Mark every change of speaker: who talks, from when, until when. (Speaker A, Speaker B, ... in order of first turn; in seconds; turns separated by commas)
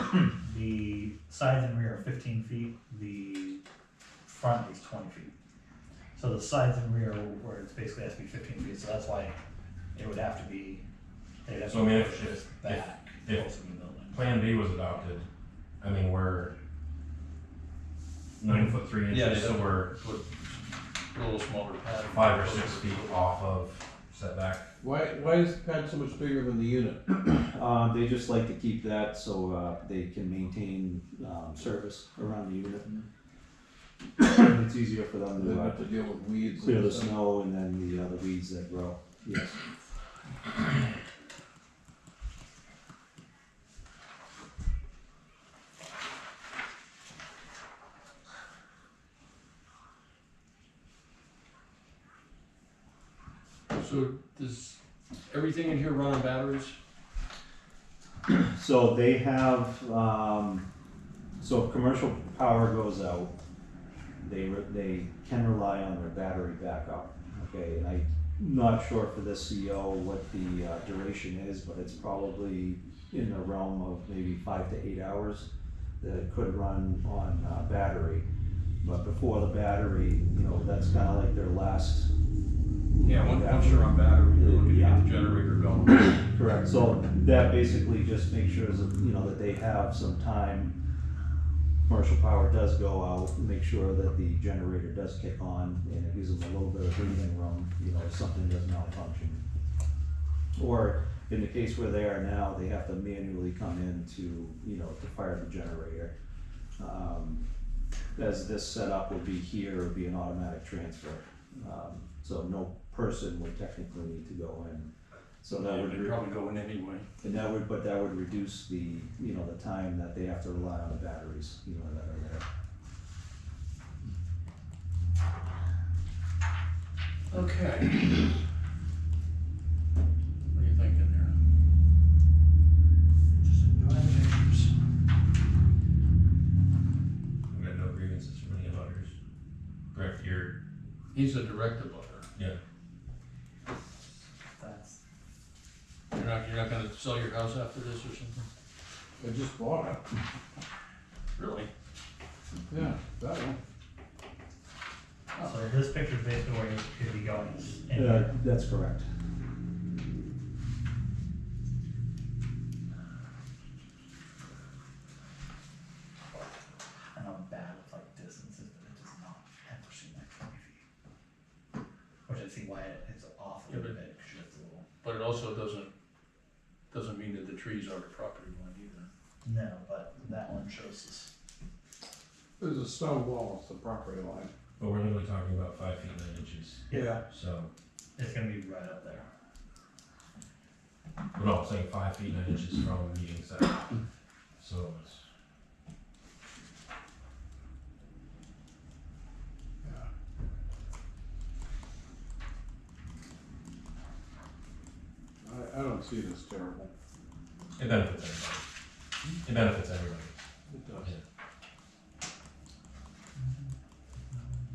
Speaker A: 0.1-3.6, Speaker A: 4.3-5.3, Speaker A: 6.2-9.4, Speaker A: 9.9-10.8, Speaker A: 11.5-14.2, Speaker B: 11.7-13.4, Speaker B: 14.1-15.3, Speaker B: 15.8-16.6, Speaker B: 18.4-19.9, Speaker C: 19.1-20.5, Speaker C: 21.1-23.2, Speaker B: 22.1-24.7, Speaker D: 24.8-27.1, Speaker E: 27.3-32.9, Speaker E: 34.2-35.8, Speaker D: 35.3-37.2, Speaker E: 36.6-39.6, Speaker C: 53.7-56.8, Speaker E: 58.3-60.7, Speaker E: 61.4-63.3, Speaker E: 64.2-78.3, Speaker E: 78.8-82.1, Speaker E: 83.0-85.0, Speaker C: 83.0-86.2, Speaker E: 86.1-90.8, Speaker E: 91.9-99.4, Speaker E: 100.6-106.1, Speaker E: 106.8-107.4, Speaker E: 108.2-114.9, Speaker E: 115.4-116.2, Speaker C: 115.5-117.1, Speaker E: 117.2-122.5, Speaker C: 127.3-128.3, Speaker C: 130.5-131.4, Speaker C: 133.4-134.7, Speaker B: 137.5-139.1, Speaker B: 139.9-140.6, Speaker C: 141.1-142.3, Speaker A: 144.6-145.0, Speaker C: 146.1-148.5, Speaker D: 149.2-150.0, Speaker C: 151.4-151.7, Speaker D: 152.7-153.6, Speaker A: 155.4-158.3, Speaker E: 157.9-159.1, Speaker A: 167.2-170.8, Speaker A: 172.3-174.9, Speaker C: 173.7-173.9, Speaker C: 175.0-175.9, Speaker C: 176.9-179.1, Speaker A: 179.4-181.3, Speaker D: 182.6-184.5, Speaker B: 184.8-187.7, Speaker A: 186.9-187.2, Speaker D: 186.9-187.2, Speaker A: 188.2-189.3, Speaker B: 191.3-193.9, Speaker B: 194.6-195.2, Speaker D: 199.8-200.1, Speaker D: 205.4-206.9, Speaker B: 207.8-208.6, Speaker B: 209.4-210.3, Speaker D: 210.7-211.1